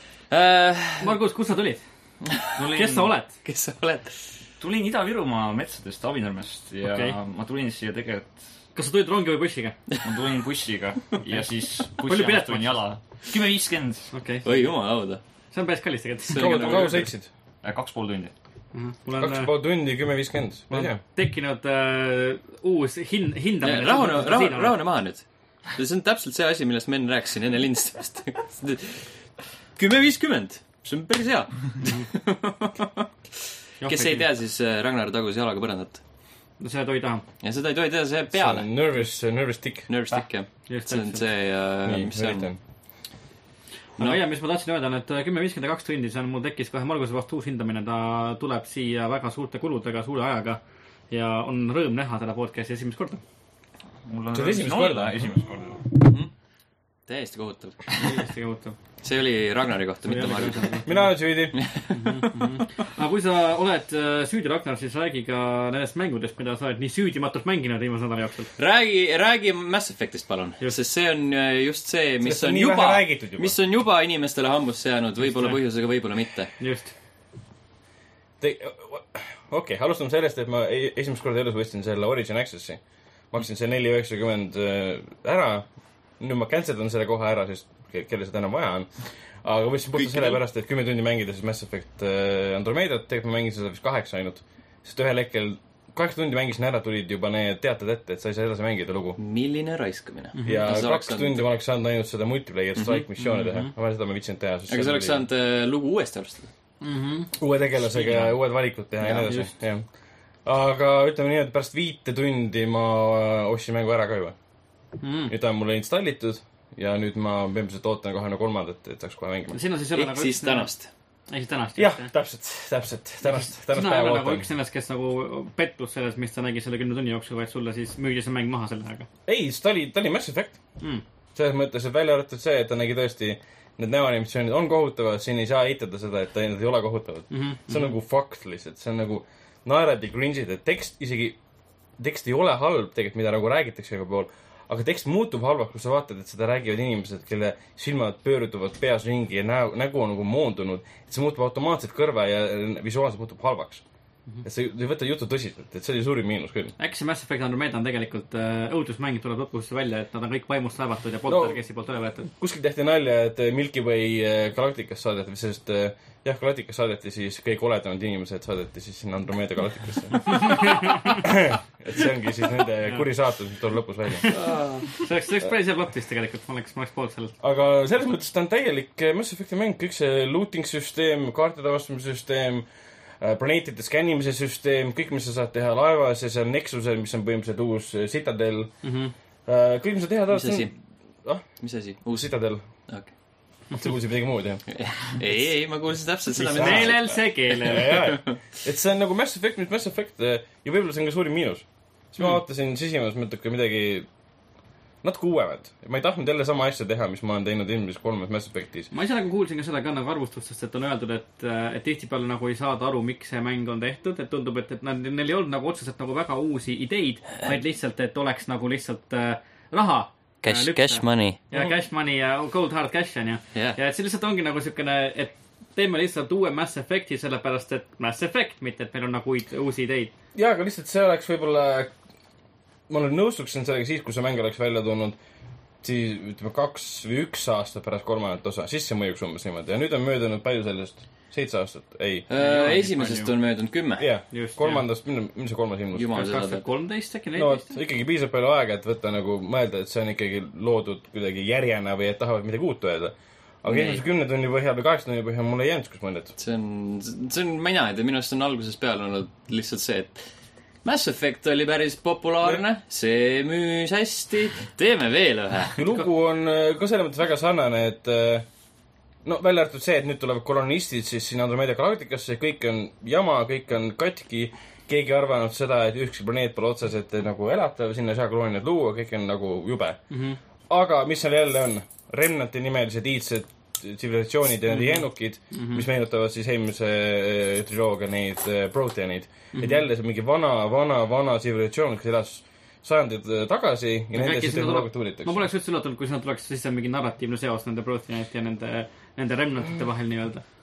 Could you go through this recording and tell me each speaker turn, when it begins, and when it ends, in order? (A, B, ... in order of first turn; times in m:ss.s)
0:00.3-0:01.2 A
0:01.0-0:01.8 B
0:02.2-0:02.5 A
0:02.6-0:03.1 C
0:02.7-0:03.3 B
0:03.4-0:04.2 A
0:04.6-0:08.4 C
0:06.9-0:07.2 B
0:08.7-0:09.7 B
0:10.0-0:14.1 C
0:12.0-0:12.8 B
0:14.1-0:14.5 B
0:14.4-0:15.2 A
0:15.5-0:17.0 B
0:16.3-0:17.0 A
0:16.4-0:17.3 D
0:17.6-0:18.3 C
0:18.7-0:19.5 B
0:19.2-0:21.0 D
0:20.7-0:24.7 B
0:23.6-0:29.2 A
0:29.8-0:33.0 A
0:33.8-0:34.2 B
0:33.8-0:36.0 A
0:36.6-0:37.2 B
0:37.4-0:38.7 A
0:38.3-0:39.9 D
0:39.9-0:42.5 A
0:40.7-0:41.2 B
0:41.8-0:42.6 D
0:44.0-0:50.6 B
0:51.1-0:53.2 B
0:54.0-0:55.8 C
0:54.3-0:55.3 D
0:56.0-0:56.3 A
0:57.1-0:58.1 A
0:58.0-0:58.8 B
0:59.0-1:00.8 A
1:00.0-1:01.1 B
1:00.8-1:01.6 D
1:01.5-1:01.9 A
1:01.9-1:08.5 B
1:08.6-1:16.5 A
1:12.2-1:13.5 D
1:16.6-1:16.9 B
1:18.4-1:22.8 D
1:23.3-1:25.7 D
1:26.2-1:28.9 D
1:29.4-1:39.2 D
1:30.0-1:30.4 A
1:39.2-1:41.5 A
1:40.3-1:40.7 B
1:40.4-1:45.2 D
1:42.8-1:43.0 A
1:43.4-1:43.7 B
1:44.7-1:46.5 A
1:46.8-1:47.3 B
1:47.4-1:49.8 D
1:47.9-1:48.3 A
1:49.0-1:49.3 A
1:49.2-1:49.5 B
1:50.4-1:54.4 D
1:55.0-1:55.3 B
1:55.3-1:59.6 D
1:59.5-2:00.7 B
1:59.9-2:00.9 A
2:01.3-2:02.1 B
2:01.8-2:04.5 D
2:03.7-2:09.1 B
2:09.2-2:10.6 D
2:11.3-2:21.4 D
2:17.3-2:17.9 B
2:22.0-2:33.8 D
2:34.4-2:36.7 D
2:36.8-2:42.3 B
2:41.3-2:41.6 D
2:42.3-2:54.3 D
2:50.3-2:51.2 B
2:54.3-2:55.0 A
2:54.9-2:57.3 B
2:57.4-3:02.7 D
3:03.2-3:08.8 D
3:08.8-3:09.1 B
3:09.4-3:10.7 D
3:10.3-3:10.7 A
3:11.6-3:12.3 A
3:12.1-3:12.6 D
3:13.7-3:14.6 D
3:14.7-3:17.0 A
3:16.3-3:24.1 D
3:16.5-3:18.1 B
3:17.9-3:18.4 A
3:25.0-3:28.9 D
3:28.9-3:50.1 B
3:40.4-3:41.4 A
3:50.3-3:51.9 D
3:52.9-3:55.2 D
3:55.8-4:02.3 D
4:02.3-4:04.0 A
4:02.3-4:03.3 B
4:04.0-4:06.2 D
4:04.3-4:04.8 B
4:05.9-4:06.7 A
4:06.1-4:07.7 B
4:07.4-4:16.3 D
4:13.6-4:14.0 A
4:16.4-4:20.2 A
4:20.8-4:25.9 A
4:25.8-4:28.4 D
4:29.2-4:40.0 D
4:40.1-4:40.4 B
4:40.7-4:55.4 D
4:44.7-4:45.8 B
4:49.5-4:49.8 B
4:54.1-5:00.4 B